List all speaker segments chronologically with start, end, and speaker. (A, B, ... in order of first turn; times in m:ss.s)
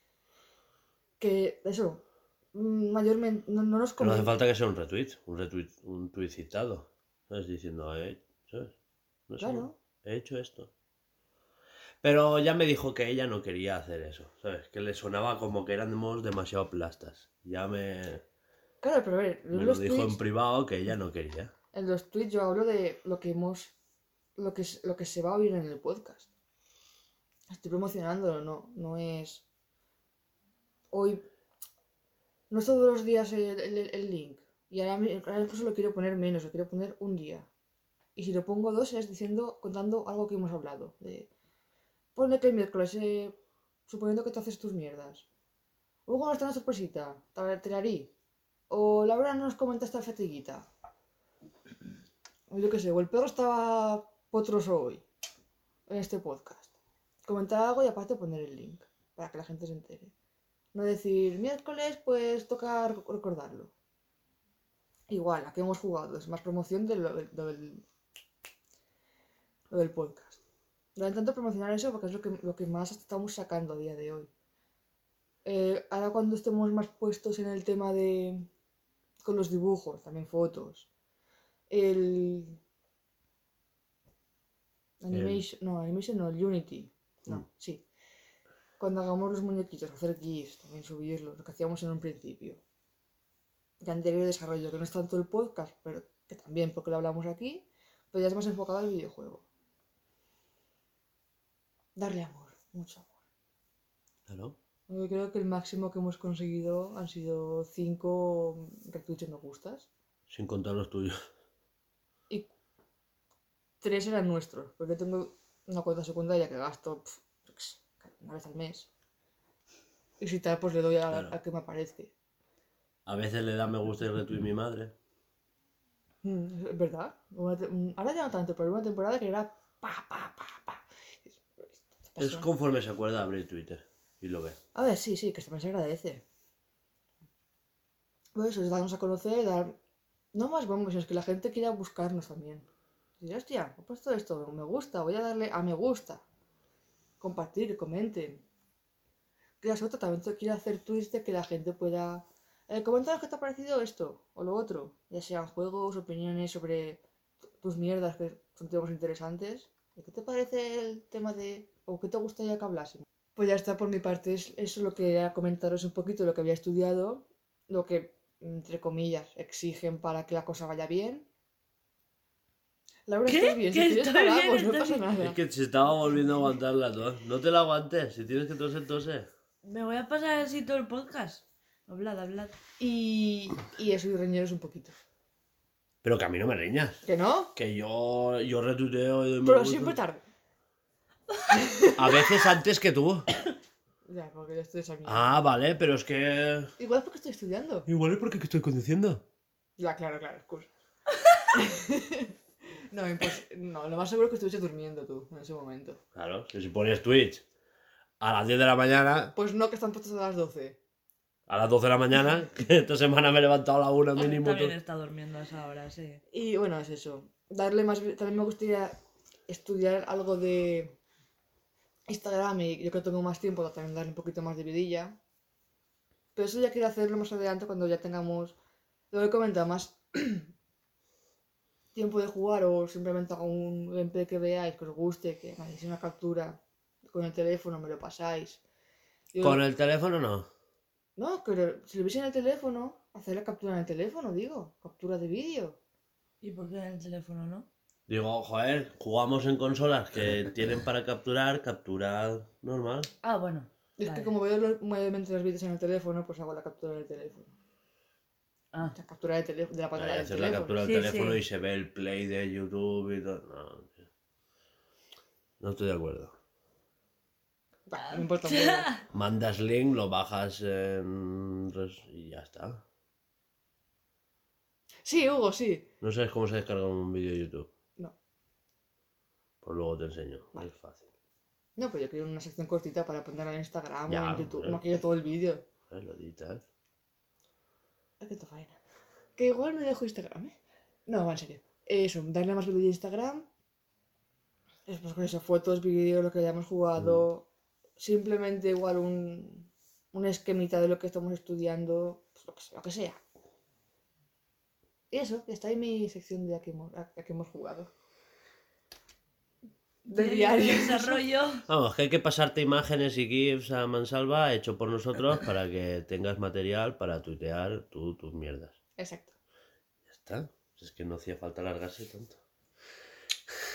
0:01.2-0:02.0 A
0:02.5-0:04.4 A
0:04.0-0:08.7 B
0:09.3-0:10.7 B
0:09.4-0:09.8 A
0:12.0-0:18.2 B
0:18.8-0:20.2 A
0:19.5-0:21.5 B
0:21.7-0:23.7 A
0:24.4-0:26.3 A
0:27.5-0:29.4 A
0:30.9-0:31.2 A
0:32.5-0:37.5 A
0:38.2-0:41.3 A
0:42.1-0:43.4 A
0:43.9-0:45.2 A
0:46.1-0:48.1 A
0:48.7-0:50.7 A
0:52.5-0:55.0 A
0:55.9-0:56.7 A
0:57.2-1:00.1 A
1:00.7-1:03.7 A
1:05.1-1:07.8 A
1:09.7-1:10.4 A
1:11.0-1:14.3 A
1:15.4-1:18.5 A
1:19.2-1:20.9 A
1:21.7-1:22.6 A
1:25.0-1:27.8 A
1:25.1-1:25.4 B
1:28.8-1:32.6 A
1:33.8-1:39.4 A
1:42.0-1:43.1 A
1:44.3-1:44.6 B
1:44.9-1:49.9 A
1:50.3-1:51.2 B
1:53.8-1:58.9 A
2:00.2-2:02.1 A
2:03.0-2:04.9 B
2:06.2-2:12.5 A
2:12.2-2:14.6 B
2:14.7-2:16.2 A
2:18.3-2:19.8 A
2:20.3-2:22.7 A
2:23.2-2:26.2 A
2:27.2-2:28.4 A
2:29.6-2:37.0 A
2:37.6-2:51.3 A
2:53.1-2:55.4 A
2:53.3-2:55.1 C
2:55.2-2:59.3 B
2:59.6-3:02.5 C
3:02.8-3:04.9 A
3:06.0-3:07.0 B
3:07.0-3:07.5 A
3:07.5-3:10.0 B
3:09.4-3:10.2 A
3:11.5-3:12.2 A
3:12.0-3:13.3 B
3:14.0-3:15.4 A
3:15.0-3:16.7 B
3:16.8-3:17.9 A
3:17.9-3:19.2 B
3:19.8-3:20.7 A
3:21.5-3:22.3 A
3:22.9-3:26.0 A
3:26.1-3:27.4 B
3:28.2-3:29.3 B
3:29.3-3:30.8 A
3:31.5-3:34.7 B
3:34.2-3:36.2 C
3:36.3-3:39.0 A
3:39.5-3:41.0 A
3:42.1-3:45.2 A
3:46.3-3:48.5 A
3:49.1-3:50.5 A
3:51.9-3:58.6 A
3:59.3-3:59.6 A
3:59.4-4:00.5 B
4:01.2-4:05.8 A
4:06.4-4:07.6 C
4:08.1-4:13.1 B
4:13.2-4:14.3 C
4:14.0-4:17.5 A
4:18.9-4:20.8 A
4:19.9-4:24.0 B
4:20.8-4:21.4 C
4:25.6-4:26.3 B
4:27.9-4:29.0 A
4:28.1-4:29.0 C
4:29.1-4:32.8 B
4:35.0-4:35.9 A
4:36.0-4:37.7 B
4:39.6-4:41.0 B
4:41.8-4:45.6 A
4:44.1-4:44.8 B
4:45.9-4:46.6 B
4:48.2-4:48.8 A
4:49.4-4:53.5 A
4:54.8-4:57.5 A
4:57.0-4:57.2 B
4:58.0-5:03.2 A
5:05.1-5:07.9 A
5:10.0-5:11.2 A
5:10.1-5:11.6 C
5:11.7-5:18.7 B
5:19.0-5:19.3 A
5:20.1-5:22.4 B